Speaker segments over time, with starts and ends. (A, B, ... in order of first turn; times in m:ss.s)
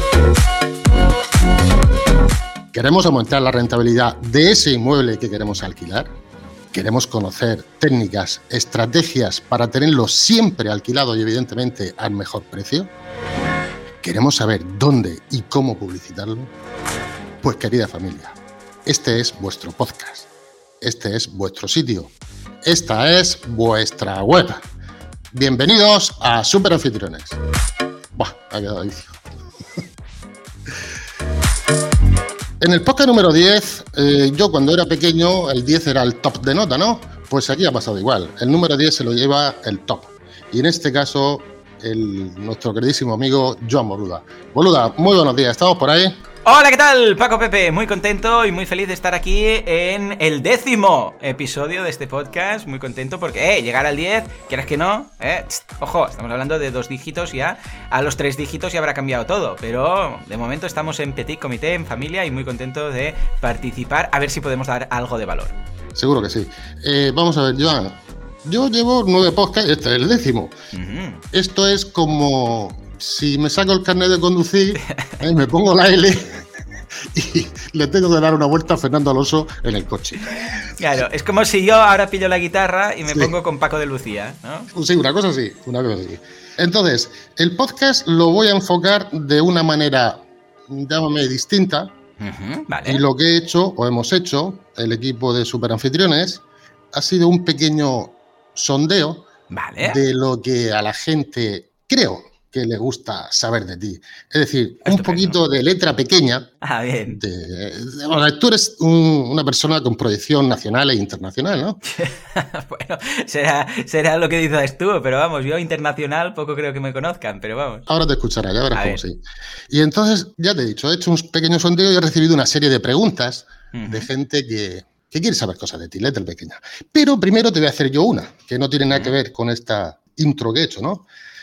0:02.7-0:06.1 A
0:06.7-0:12.9 A
0:14.0-0:16.5 A
0:17.4-0:20.3 A
0:20.8-0:22.1 A
0:22.6-0:24.6 A
0:25.3-0:27.4 A
0:28.2-0:29.2 A
0:32.6-0:46.2 A
0:46.4-1:05.6 B
1:06.0-1:10.5 A
1:10.7-1:11.2 B
1:11.3-1:16.5 A
1:14.8-1:15.1 B
1:17.1-1:20.6 A
1:20.8-1:24.7 B
1:24.7-1:31.9 A
1:32.2-1:33.0 B
1:32.9-1:39.3 A
1:39.5-1:40.0 B
1:39.8-1:46.5 A
1:44.8-1:45.4 B
1:46.6-1:47.2 B
1:47.1-1:51.8 A
1:51.8-1:57.8 B
1:57.9-2:11.1 A
1:58.7-1:59.0 B
2:03.7-2:04.1 B